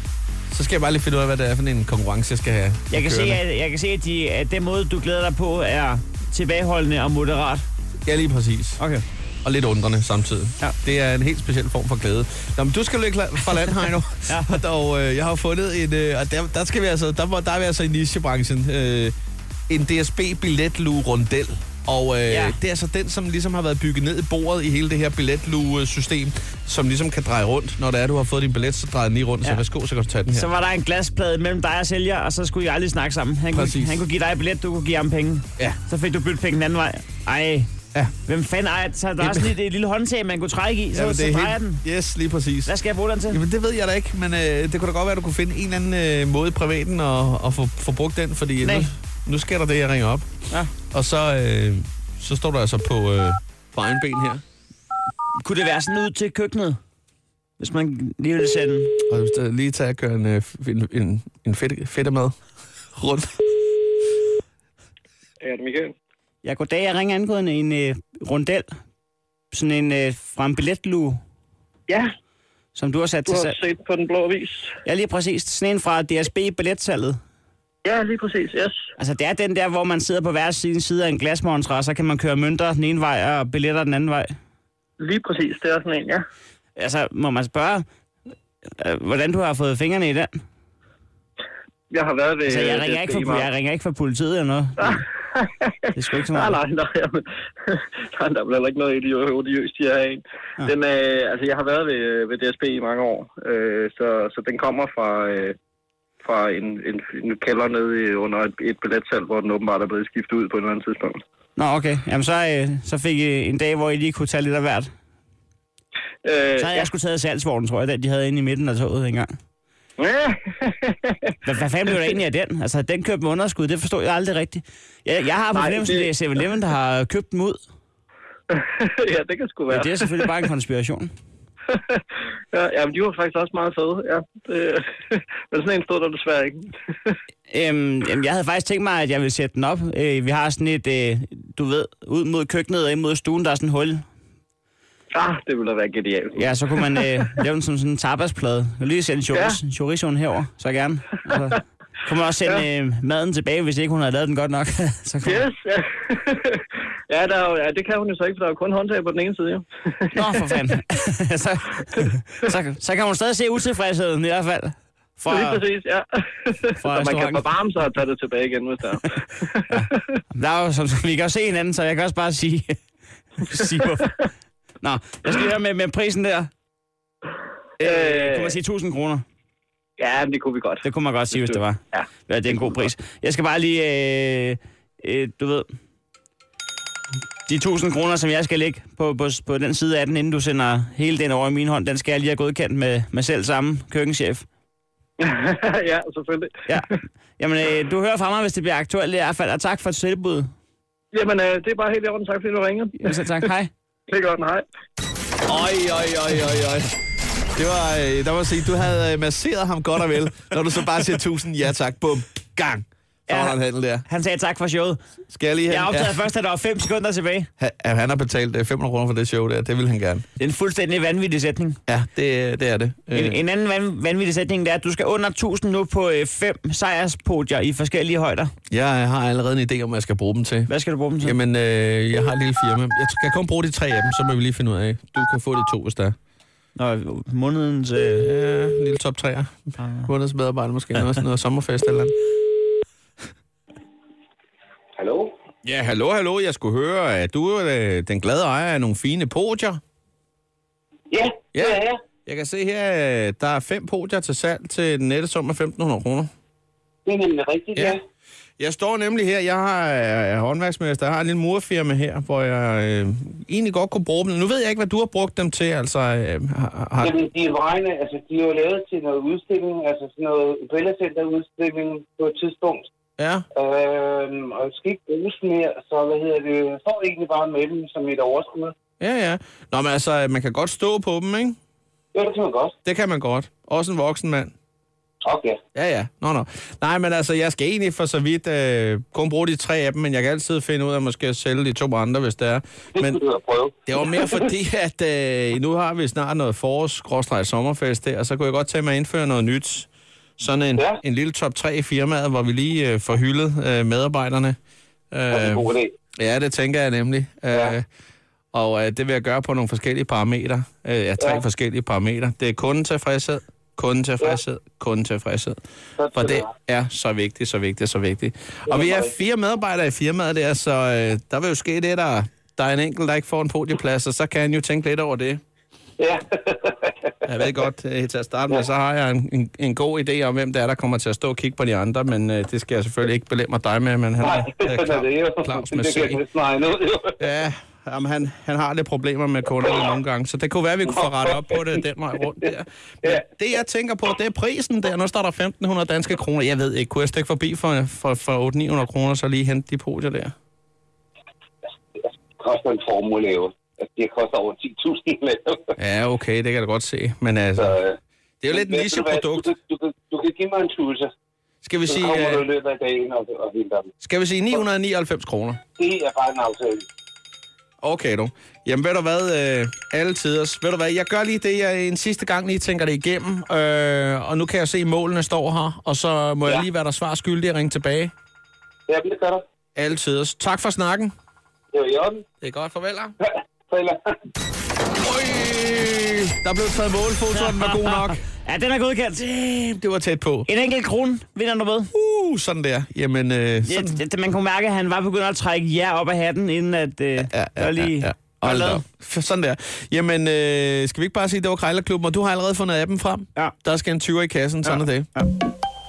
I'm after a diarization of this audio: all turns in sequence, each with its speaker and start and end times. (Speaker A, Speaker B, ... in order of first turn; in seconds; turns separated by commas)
Speaker A: 0.5-3.4, Speaker B: 2.9-7.7, Speaker A: 8.1-8.8, Speaker B: 8.8-9.1, Speaker A: 9.4-19.1, Speaker B: 14.3-14.6, Speaker A: 19.7-30.5, Speaker B: 22.3-22.6, Speaker B: 30.3-37.7, Speaker A: 33.5-34.0, Speaker B: 38.2-41.8, Speaker A: 39.2-39.5, Speaker A: 40.9-42.7, Speaker B: 42.7-43.4, Speaker A: 43.3-50.3, Speaker B: 48.6-48.9, Speaker A: 50.9-54.4, Speaker B: 55.4-56.8, Speaker B: 57.6-59.0, Speaker A: 59.1-62.3, Speaker A: 63.0-63.3, Speaker C: 65.4-65.9, Speaker B: 66.4-68.7, Speaker B: 69.5-71.2, Speaker B: 72.8-73.5, Speaker C: 73.3-74.7, Speaker B: 74.8-77.2, Speaker C: 77.8-78.8, Speaker B: 79.0-84.3, Speaker C: 85.0-86.2, Speaker B: 86.8-87.8, Speaker B: 88.8-90.3, Speaker C: 91.9-93.5, Speaker B: 92.5-95.0, Speaker C: 94.8-95.7, Speaker B: 95.9-96.6, Speaker C: 96.3-105.5, Speaker C: 106.2-111.2, Speaker B: 111.6-114.9, Speaker C: 116.2-116.9, Speaker B: 116.6-119.3, Speaker C: 120.0-121.3, Speaker B: 121.4-127.6, Speaker C: 125.5-126.1, Speaker C: 128.5-130.3, Speaker B: 129.7-131.1, Speaker C: 131.7-137.2, Speaker B: 137.5-144.1, Speaker C: 145.1-147.1, Speaker B: 146.4-155.5, Speaker C: 149.3-149.6, Speaker C: 155.2-160.3, Speaker B: 160.1-165.6, Speaker C: 165.3-170.0, Speaker B: 166.8-167.4, Speaker B: 169.7-172.8, Speaker B: 173.4-174.2, Speaker B: 174.8-176.5, Speaker B: 177.8-179.2, Speaker C: 177.8-178.6, Speaker C: 180.0-182.1, Speaker B: 180.8-185.7, Speaker B: 187.5-194.4, Speaker C: 195.2-196.5, Speaker B: 197.4-200.5, Speaker C: 201.1-203.5, Speaker B: 203.0-203.7, Speaker C: 204.1-204.7, Speaker A: 205.5-206.9, Speaker A: 207.6-214.0, Speaker B: 213.3-215.0, Speaker A: 215.3-216.2, Speaker B: 215.7-217.5, Speaker A: 217.6-220.2, Speaker B: 220.4-221.8, Speaker A: 221.9-223.4, Speaker B: 223.1-228.5, Speaker A: 228.7-230.7, Speaker B: 230.7-231.4, Speaker A: 231.2-236.2, Speaker B: 236.8-238.3, Speaker A: 238.2-242.1, Speaker B: 239.8-240.1, Speaker D: 245.0-245.3, Speaker A: 245.6-249.8, Speaker D: 251.1-252.0, Speaker A: 251.5-256.3, Speaker D: 257.1-258.0, Speaker A: 258.6-267.1, Speaker D: 267.0-272.9, Speaker A: 273.2-273.4, Speaker D: 273.6-278.7, Speaker A: 279.0-281.6, Speaker D: 282.1-282.7, Speaker A: 282.8-284.5, Speaker D: 285.2-285.6, Speaker A: 285.7-293.2, Speaker D: 293.0-294.4, Speaker A: 293.9-304.6, Speaker A: 305.1-305.6, Speaker D: 305.3-305.9, Speaker A: 306.2-307.9, Speaker A: 308.5-315.6, Speaker D: 316.0-316.5, Speaker A: 316.1-325.4, Speaker D: 318.7-319.1, Speaker D: 326.0-327.1, Speaker A: 327.2-336.2, Speaker D: 334.2-337.2, Speaker A: 337.2-350.3, Speaker D: 340.9-341.7, Speaker D: 352.4-355.7, Speaker A: 355.8-357.7, Speaker D: 357.6-358.0, Speaker A: 358.4-359.5, Speaker D: 358.5-361.1, Speaker A: 361.6-362.4, Speaker D: 361.9-363.9, Speaker A: 364.0-365.6, Speaker D: 365.8-366.9, Speaker A: 367.8-378.1, Speaker D: 378.9-379.4, Speaker A: 379.8-381.1, Speaker D: 381.7-382.2, Speaker A: 382.4-383.1, Speaker D: 383.7-384.1, Speaker A: 384.9-388.2, Speaker B: 387.6-389.4, Speaker A: 389.2-390.5, Speaker B: 390.5-391.9, Speaker A: 391.9-394.0, Speaker B: 393.6-398.8, Speaker A: 397.2-405.1, Speaker B: 404.6-405.3